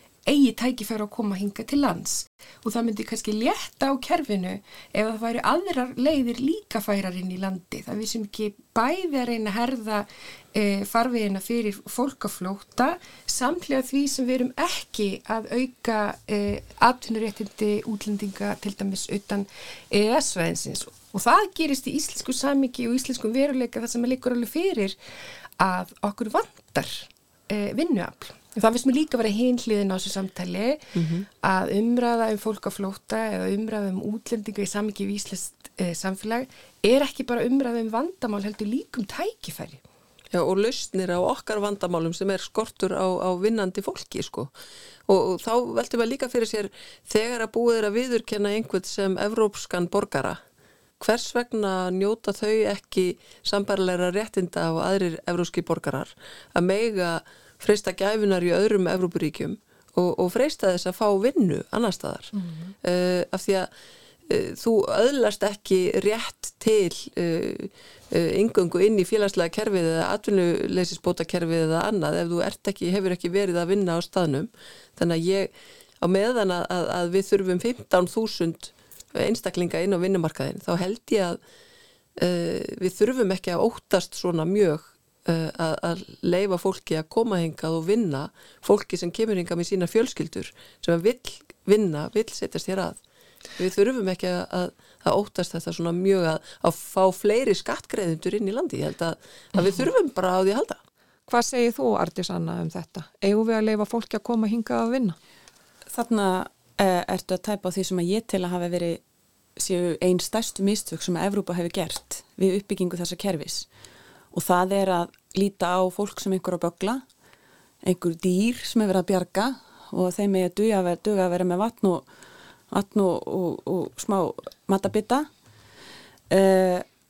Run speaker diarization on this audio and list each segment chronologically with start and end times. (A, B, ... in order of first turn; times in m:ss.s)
0:00.3-0:25.0 A
0:25.6-0:39.8 A
0:31.0-0:31.3 B
0:40.3-0:44.5 B
0:45.1-0:50.4 B
0:51.0-1:03.7 B
1:02.4-1:02.7 A
1:04.3-1:21.4 B
1:22.2-1:33.0 B
1:33.6-1:40.8 B
1:41.3-1:45.2 C
1:45.9-1:49.0 D
1:49.6-1:53.7 D
1:54.3-1:57.0 D
1:57.8-2:02.1 D
2:02.7-2:05.3 D
2:06.3-2:06.9 D